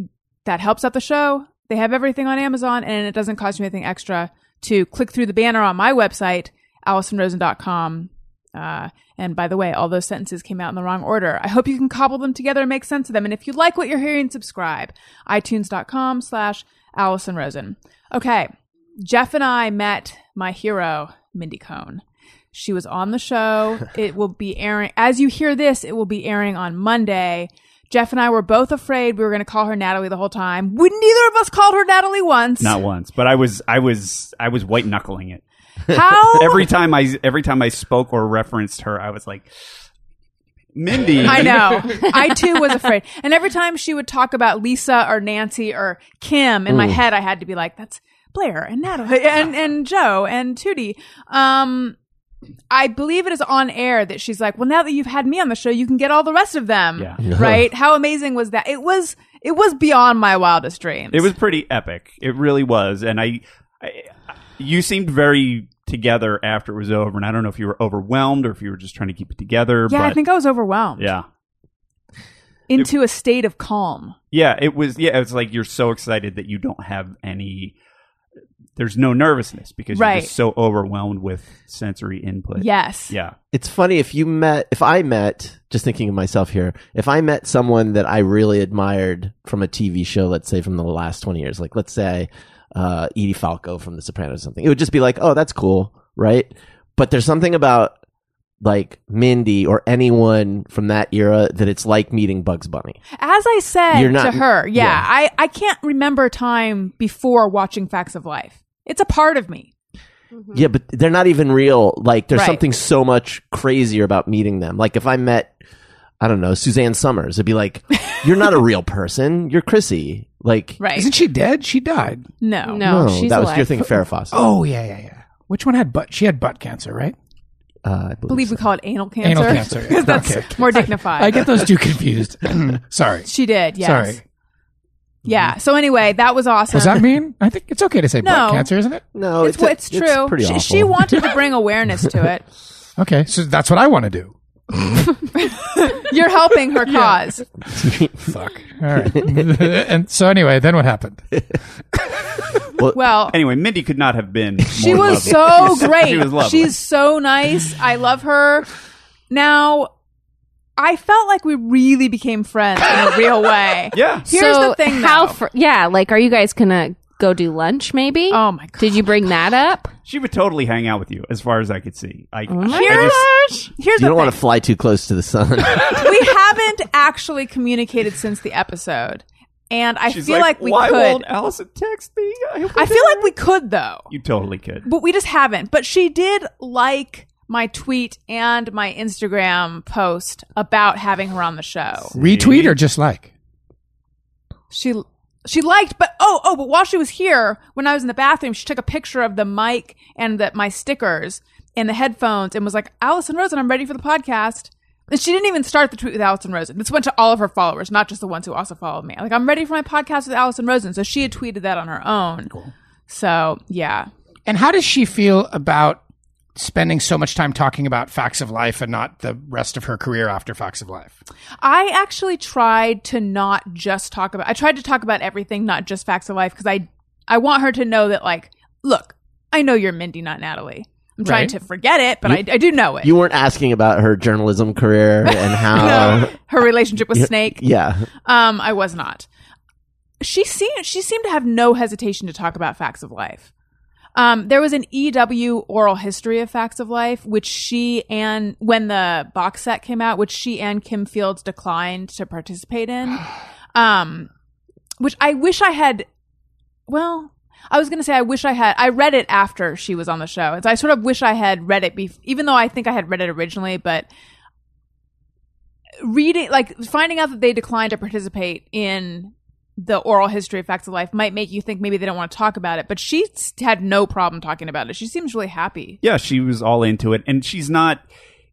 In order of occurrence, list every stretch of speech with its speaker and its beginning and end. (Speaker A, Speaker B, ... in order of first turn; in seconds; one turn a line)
Speaker A: 0.4-32.8
Speaker B: 32.6-35.4
Speaker A: 35.9-36.7
Speaker B: 36.2-39.5
Speaker B: 40.8-42.0
Speaker A: 41.2-52.0
Speaker C: 46.7-47.0
Speaker A: 52.7-61.3
Speaker C: 57.2-57.6
Speaker B: 61.1-70.2
Speaker A: 69.9-71.1
Speaker B: 71.0-71.2
Speaker A: 72.7-74.1
Speaker B: 74.3-77.7
Speaker B: 78.8-83.3
Speaker A: 79.9-80.3
Speaker A: 82.6-83.1
Speaker C: 83.5-97.9
Speaker C: 98.6-103.0
Speaker A: 103.2-109.7
Speaker C: 103.9-105.0
Speaker C: 110.5-115.5
Speaker A: 112.3-112.6
Speaker C: 116.2-120.8
Speaker A: 120.8-121.1
Speaker D: 120.9-122.3
Speaker A: 122.4-122.8
Speaker E: 122.7-123.9
Speaker C: 122.8-124.4
Speaker D: 124.3-127.1
Speaker C: 127.8-128.6
Speaker A: 128.3-131.6
Speaker D: 129.2-133.3
Speaker A: 133.2-134.2
Speaker D: 133.8-134.2
Speaker A: 135.2-137.1
Speaker D: 136.7-139.1
Speaker A: 138.2-138.7
Speaker C: 139.1-141.3
Speaker A: 139.4-142.4
Speaker D: 143.0-144.8
Speaker A: 145.3-147.5
Speaker D: 146.9-147.2
Speaker C: 147.8-148.2
Speaker D: 147.8-151.3
Speaker C: 149.0-149.5
Speaker C: 152.8-153.1
Speaker A: 152.9-153.4
Speaker B: 153.3-156.7
Speaker A: 154.7-158.7
Speaker A: 159.3-159.9
Speaker A: 160.8-165.3
Speaker B: 163.9-164.3
Speaker E: 164.3-169.9
Speaker A: 168.3-169.1
Speaker B: 170.1-173.2
Speaker E: 172.5-173.7
Speaker A: 172.7-174.3
Speaker C: 173.9-176.3
Speaker A: 175.9-181.2
Speaker B: 180.1-183.3
Speaker A: 182.7-184.1
Speaker B: 184.1-184.9
Speaker A: 184.8-192.1
Speaker B: 192.1-192.8
Speaker D: 192.1-193.3
Speaker A: 194.7-212.6
Speaker A: 213.1-214.1
Speaker D: 214.4-216.0
Speaker D: 216.6-221.1
Speaker A: 221.6-233.1
Speaker D: 231.2-231.5
Speaker C: 233.0-236.4
Speaker A: 235.3-237.6
Speaker C: 237.1-238.1
Speaker A: 238.2-239.3
Speaker A: 240.2-243.5
Speaker A: 244.1-254.3
Speaker A: 255.0-256.1
Speaker A: 256.9-264.1
Speaker A: 266.0-276.0
Speaker B: 276.0-278.0